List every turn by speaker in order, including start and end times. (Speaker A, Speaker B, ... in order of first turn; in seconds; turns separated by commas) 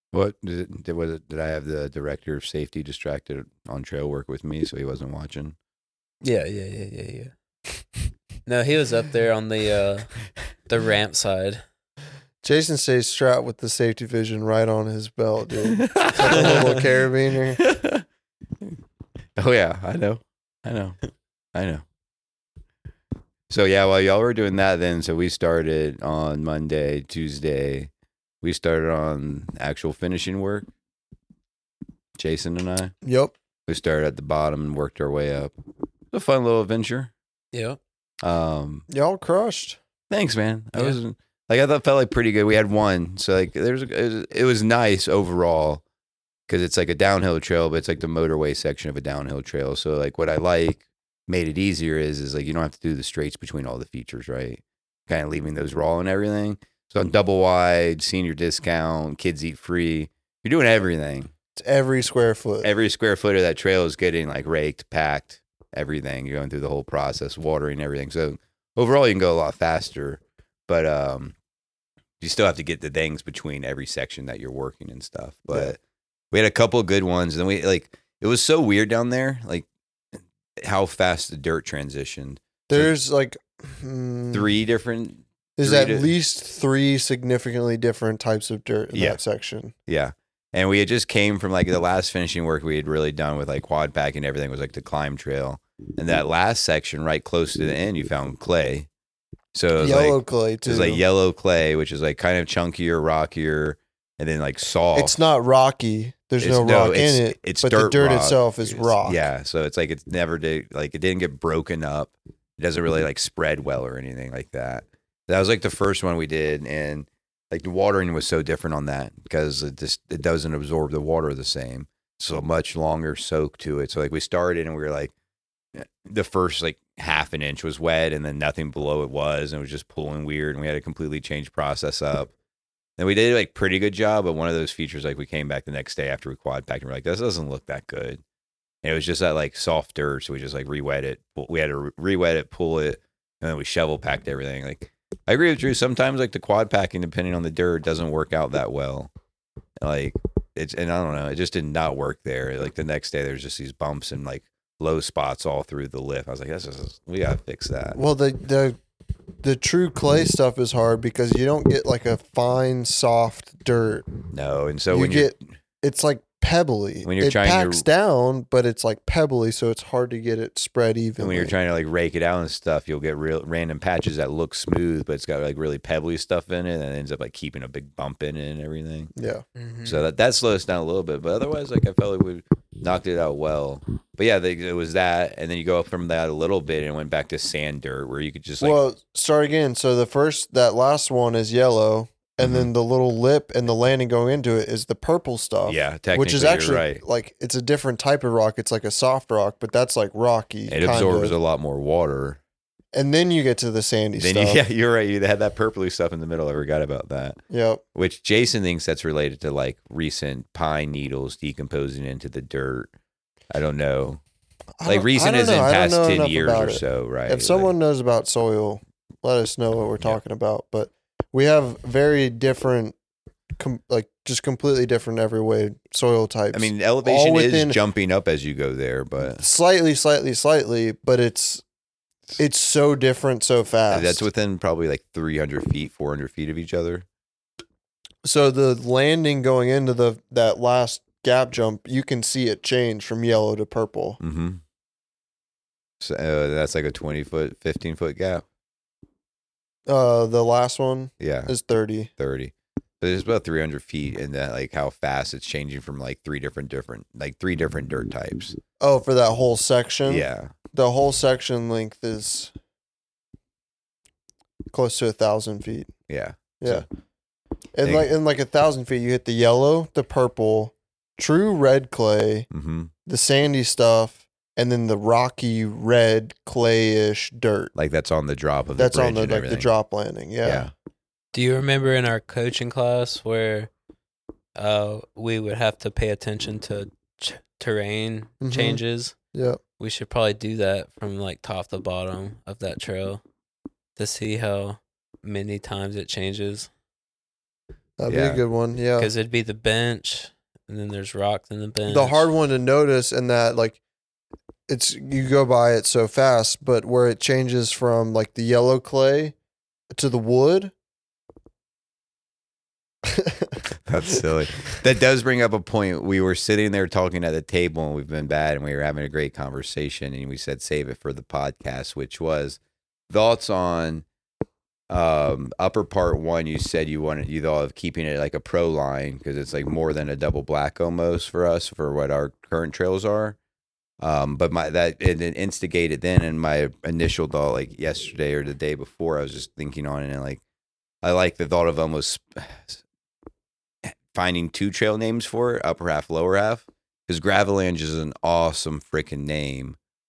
Speaker A: 0.1-5.5, Speaker B: 6.2-7.3, Speaker B: 8.4-10.1, Speaker B: 10.7-11.6, Speaker C: 12.4-17.6, Speaker A: 15.7-16.8, Speaker A: 17.6-18.0, Speaker A: 19.4-21.0, Speaker A: 21.5-21.8, Speaker A: 23.5-27.9, Speaker A: 28.4-30.7, Speaker A: 32.2-32.9, Speaker C: 33.0-33.3, Speaker A: 33.7-35.5, Speaker A: 36.1-37.1, Speaker B: 37.5-37.8, Speaker A: 38.2-38.9, Speaker C: 38.9-39.8, Speaker A: 40.1-45.8, Speaker A: 46.5-61.3, Speaker C: 61.6-62.7, Speaker A: 62.6-71.3, Speaker A: 72.2-75.8, Speaker C: 75.5-75.7, Speaker A: 76.3-79.7, Speaker A: 80.6-82.9, Speaker C: 82.7-84.5, Speaker A: 84.3-86.1, Speaker C: 85.6-89.7, Speaker A: 88.9-89.2, Speaker A: 89.9-98.9, Speaker A: 99.5-105.2, Speaker C: 99.8-101.0, Speaker C: 104.9-109.2, Speaker A: 106.4-125.1, Speaker A: 125.7-132.3, Speaker A: 133.0-138.2, Speaker A: 138.8-149.1, Speaker A: 149.8-158.0, Speaker C: 157.9-158.8, Speaker C: 159.4-164.1, Speaker A: 164.3-165.3, Speaker C: 164.9-171.5, Speaker A: 167.0-167.8, Speaker A: 171.2-179.1, Speaker C: 179.2-179.4, Speaker B: 179.6-180.0, Speaker A: 179.8-188.8, Speaker C: 188.6-201.3, Speaker A: 192.4-192.7, Speaker A: 195.7-197.0, Speaker A: 200.7-202.4, Speaker C: 202.9-204.6, Speaker A: 204.2-207.4, Speaker C: 207.5-207.8, Speaker A: 207.9-212.9, Speaker A: 213.5-214.2, Speaker C: 214.8-222.9, Speaker A: 214.8-217.7, Speaker C: 223.6-227.8, Speaker A: 226.5-229.4, Speaker C: 229.3-231.6, Speaker C: 232.4-234.2, Speaker A: 233.9-237.1, Speaker C: 238.2-244.2, Speaker A: 244.2-244.6, Speaker A: 246.0-248.4, Speaker C: 249.9-252.1, Speaker A: 251.2-251.5, Speaker A: 252.2-258.6, Speaker C: 258.8-262.5, Speaker A: 260.1-260.5, Speaker C: 264.7-265.9, Speaker A: 266.1-266.9, Speaker C: 267.8-272.5, Speaker A: 267.8-268.1, Speaker A: 272.5-272.9, Speaker C: 273.1-277.7, Speaker A: 277.7-279.7, Speaker C: 278.8-280.7, Speaker A: 280.4-280.7, Speaker B: 281.3-283.7, Speaker B: 284.6-289.1, Speaker C: 288.4-288.8, Speaker C: 289.3-289.6, Speaker B: 289.8-293.2, Speaker B: 293.9-296.7, Speaker C: 298.0-299.1, Speaker A: 298.1-298.4, Speaker B: 299.0-302.2, Speaker C: 301.9-303.8, Speaker C: 304.7-309.3, Speaker C: 309.9-310.7, Speaker C: 313.1-313.6, Speaker A: 313.9-322.6, Speaker A: 323.1-324.0, Speaker A: 324.9-333.4, Speaker A: 334.0-340.4, Speaker A: 341.0-342.8, Speaker A: 343.8-349.8